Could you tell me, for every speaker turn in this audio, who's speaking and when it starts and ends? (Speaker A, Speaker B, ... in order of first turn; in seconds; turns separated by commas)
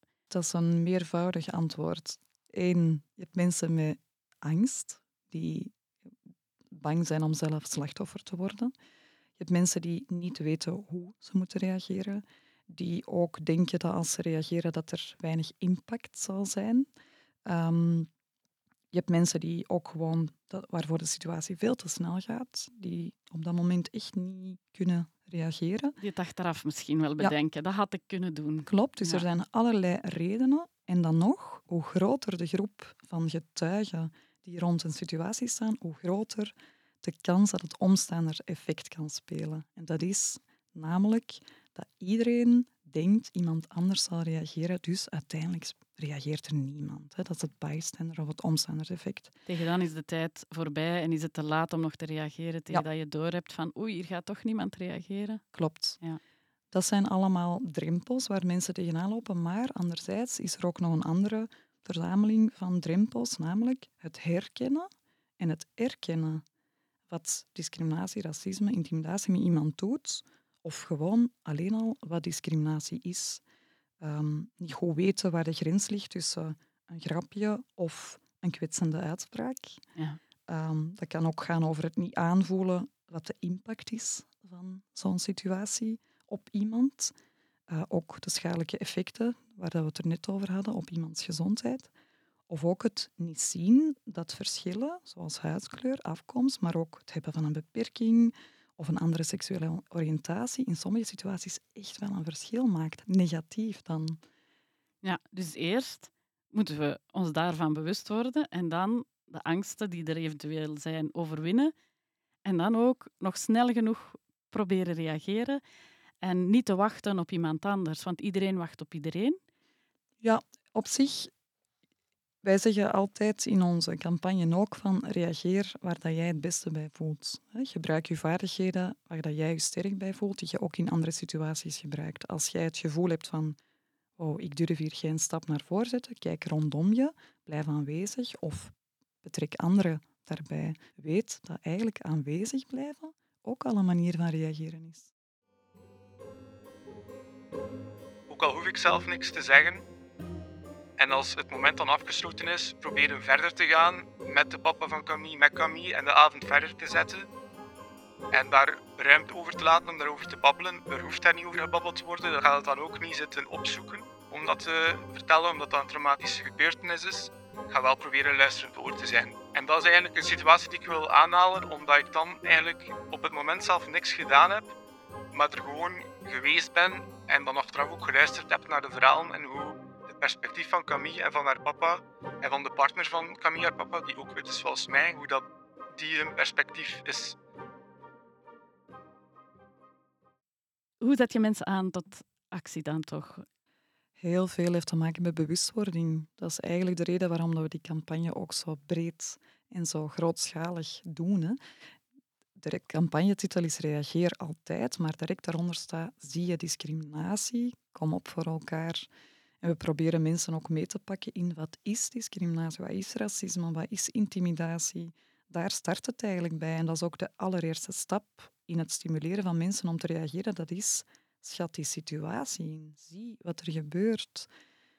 Speaker A: 0.3-5.7, Speaker A: 6.7-8.7, Speaker A: 9.4-16.9, Speaker A: 17.4-18.1, Speaker A: 18.9-26.0, Speaker B: 26.0-29.3, Speaker A: 28.6-49.3, Speaker B: 49.5-55.4, Speaker A: 55.5-56.0, Speaker A: 56.7-66.4, Speaker A: 67.1-73.4, Speaker A: 74.0-79.8, Speaker A: 80.5-87.1, Speaker A: 87.7-91.9, Speaker A: 92.5-104.2, Speaker B: 105.0-111.7, Speaker B: 112.4-115.6, Speaker B: 116.2-119.4, Speaker A: 120.2-121.3, Speaker A: 122.4-133.6, Speaker A: 134.2-145.1, Speaker C: 148.3-149.8, Speaker C: 151.0-157.3, Speaker C: 158.3-174.7, Speaker C: 175.3-187.3, Speaker B: 191.0-193.4, Speaker A: 194.2-201.6, Speaker A: 202.6-209.1, Speaker A: 209.6-224.5